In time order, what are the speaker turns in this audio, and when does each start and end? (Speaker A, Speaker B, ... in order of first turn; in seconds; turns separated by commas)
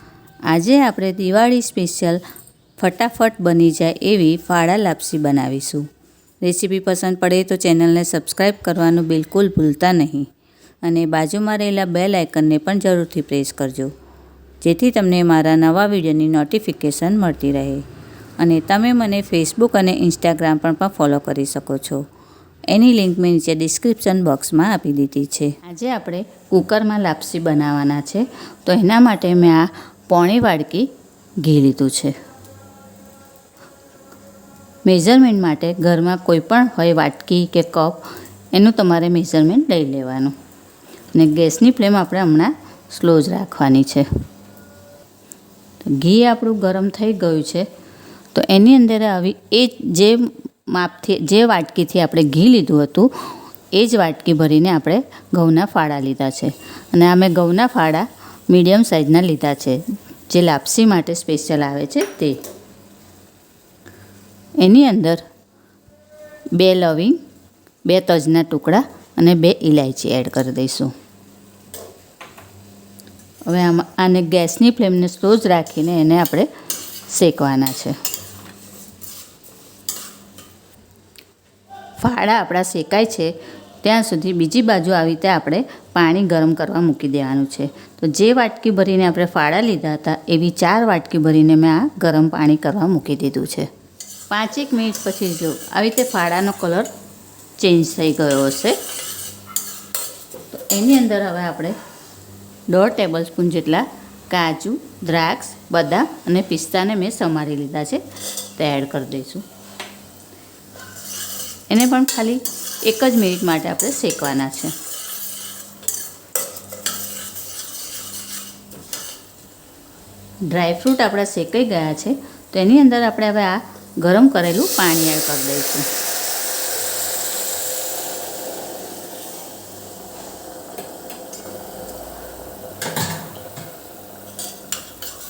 Speaker A: 0.5-2.2, Speaker A: 2.8-5.9, Speaker A: 6.4-10.3, Speaker A: 10.8-13.9, Speaker A: 14.6-17.9, Speaker A: 18.4-22.0, Speaker A: 22.7-30.9, Speaker A: 31.4-32.1, Speaker A: 34.9-40.4, Speaker A: 41.1-44.1, Speaker A: 45.8-47.7, Speaker A: 48.3-62.4, Speaker A: 64.6-65.2, Speaker A: 66.5-67.2, Speaker A: 67.9-70.9, Speaker A: 73.5-76.5, Speaker A: 77.1-78.0, Speaker A: 82.0-93.7, Speaker A: 94.3-96.9, Speaker A: 97.6-98.8, Speaker A: 100.5-101.8, Speaker A: 102.7-108.0, Speaker A: 108.6-109.4, Speaker A: 111.7-114.8, Speaker A: 120.5-125.9